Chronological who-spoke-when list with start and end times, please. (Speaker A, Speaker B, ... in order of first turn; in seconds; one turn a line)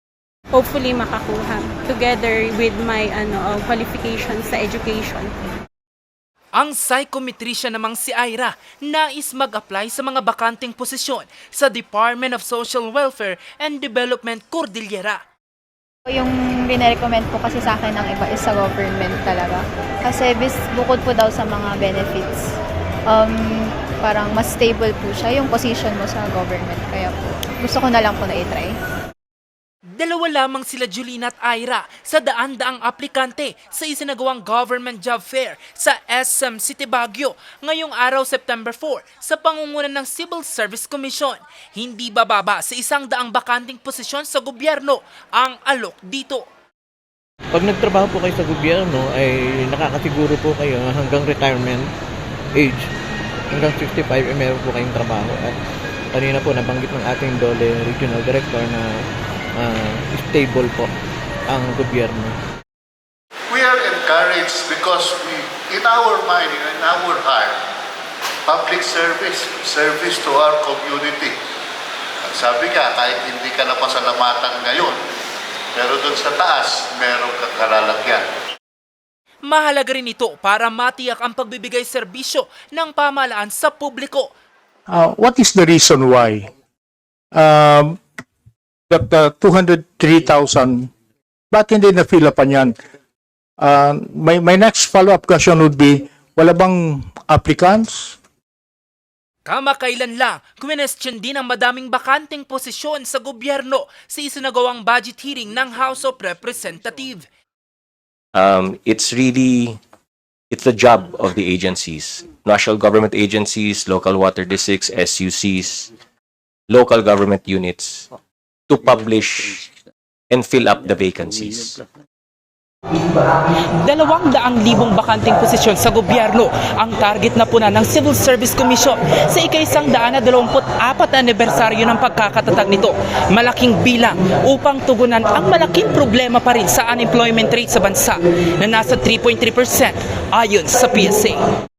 Speaker A: 0.5-5.3
Speaker B: 6.5-15.2
Speaker C: 16.1-22.5
Speaker C: 23.1-28.8
Speaker B: 29.9-46.5
Speaker D: 47.5-51.9
Speaker D: 52.6-52.9
Speaker D: 53.5-55.6
Speaker D: 56.1-58.9
Speaker D: 59.6-60.9
Speaker D: 61.5-62.4
Speaker E: 63.5-67.6
Speaker E: 68.5-71.4
Speaker E: 72.2-75.0
Speaker E: 75.8-78.3
Speaker B: 79.5-84.3
Speaker F: 84.9-86.5
Speaker F: 87.3-88.0
Speaker F: 88.9-90.9
Speaker F: 91.5-92.8
Speaker F: 93.6-98.2
Speaker B: 99.5-107.2
Speaker G: 108.3-109.8
Speaker G: 110.5-115.9
Speaker G: 116.7-118.1
Speaker G: 118.7-119.7
Speaker G: 120.3-121.8
Speaker B: 123.8-141.4